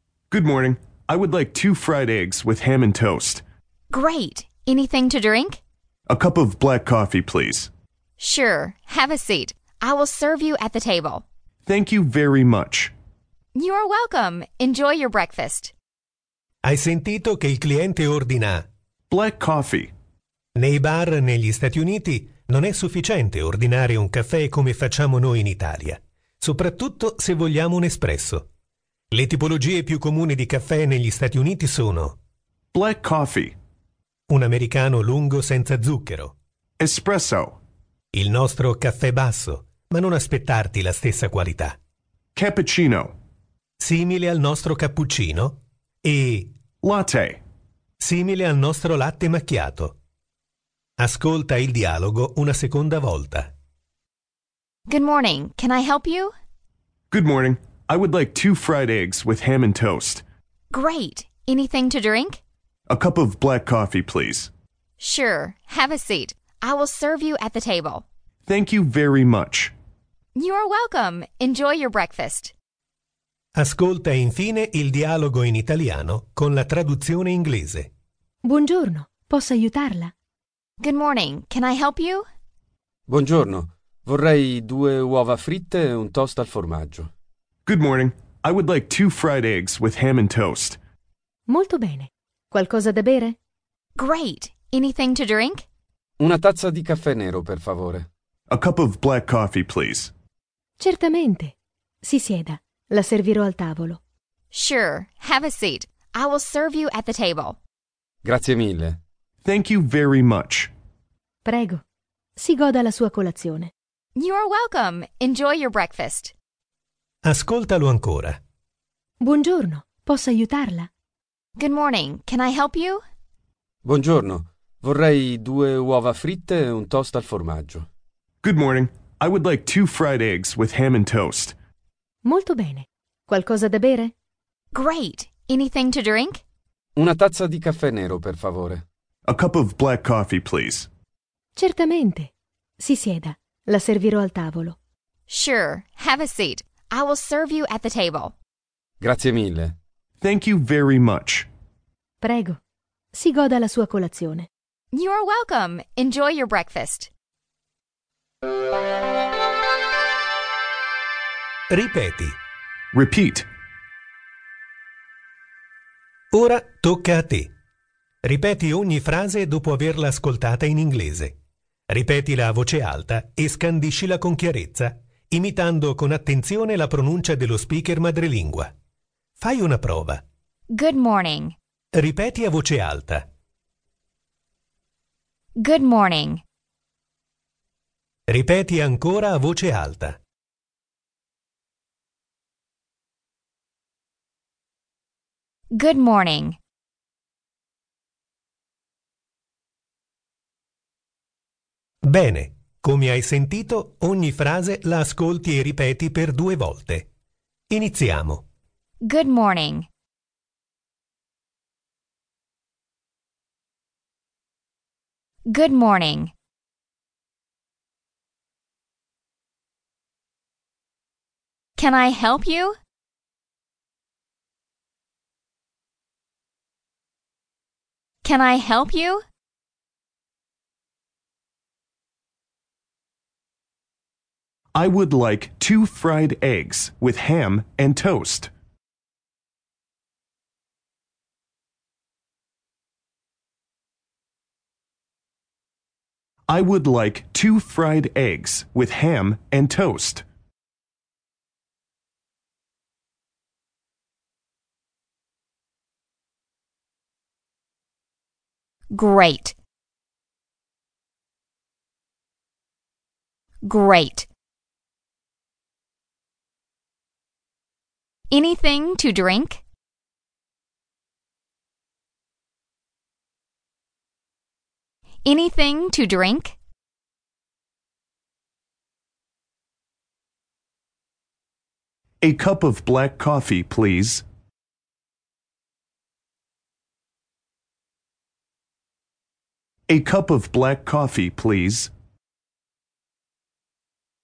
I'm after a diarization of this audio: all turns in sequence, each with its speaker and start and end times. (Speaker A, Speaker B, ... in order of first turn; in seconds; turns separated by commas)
Speaker A: 0.3-3.4, Speaker B: 3.9-5.6, Speaker A: 6.1-7.7, Speaker B: 8.2-11.2, Speaker A: 11.7-12.9, Speaker B: 13.6-15.7, Speaker C: 16.6-18.7, Speaker A: 19.1-19.9, Speaker C: 20.6-28.5, Speaker C: 29.1-32.2, Speaker A: 32.7-33.6, Speaker C: 34.3-36.4, Speaker A: 36.8-37.6, Speaker C: 38.1-41.8, Speaker A: 42.4-43.1, Speaker C: 43.8-46.5, Speaker A: 46.8-47.4, Speaker C: 48.0-50.0, Speaker C: 51.0-53.5, Speaker B: 54.9-56.3, Speaker A: 57.1-60.2, Speaker B: 60.7-62.4, Speaker A: 62.9-64.5, Speaker B: 65.0-68.1, Speaker A: 68.5-69.7, Speaker B: 70.3-72.5, Speaker C: 73.6-77.9, Speaker D: 78.5-80.1, Speaker B: 80.8-82.3, Speaker E: 83.1-87.1, Speaker A: 87.7-90.8, Speaker D: 91.5-93.4, Speaker B: 94.0-95.7, Speaker E: 96.2-98.1, Speaker A: 98.5-100.1, Speaker D: 100.8-104.0, Speaker B: 104.5-107.6, Speaker E: 108.2-109.0, Speaker A: 109.4-110.7, Speaker D: 111.5-111.8, Speaker D: 112.4-113.7, Speaker B: 114.2-116.3, Speaker C: 117.2-118.4, Speaker D: 119.2-120.9, Speaker B: 121.6-123.0, Speaker E: 123.8-127.9, Speaker A: 128.4-131.6, Speaker D: 132.2-134.1, Speaker B: 134.7-136.4, Speaker E: 137.0-138.8, Speaker A: 139.3-140.9, Speaker D: 141.6-144.8, Speaker B: 145.3-148.4, Speaker E: 149.0-149.7, Speaker A: 150.2-151.5, Speaker D: 152.2-152.6, Speaker D: 153.1-154.5, Speaker B: 154.9-157.1, Speaker C: 161.7-162.4, Speaker A: 162.9-163.5, Speaker C: 166.3-167.5, Speaker C: 168.2-171.3, Speaker C: 171.9-178.7, Speaker C: 179.4-180.2, Speaker B: 180.7-181.6, Speaker C: 182.0-183.2, Speaker B: 185.6-186.4, Speaker C: 188.3-190.2, Speaker B: 195.7-196.6, Speaker C: 202.1-207.1, Speaker C: 207.7-208.4, Speaker B: 209.0-209.9, Speaker B: 215.5-216.3, Speaker B: 221.8-222.8, Speaker B: 228.2-229.2, Speaker A: 234.8-238.5, Speaker A: 246.5-250.3, Speaker B: 258.9-259.6, Speaker B: 263.6-264.3, Speaker B: 268.3-269.6, Speaker B: 275.2-276.6, Speaker A: 282.2-284.3, Speaker A: 289.9-291.9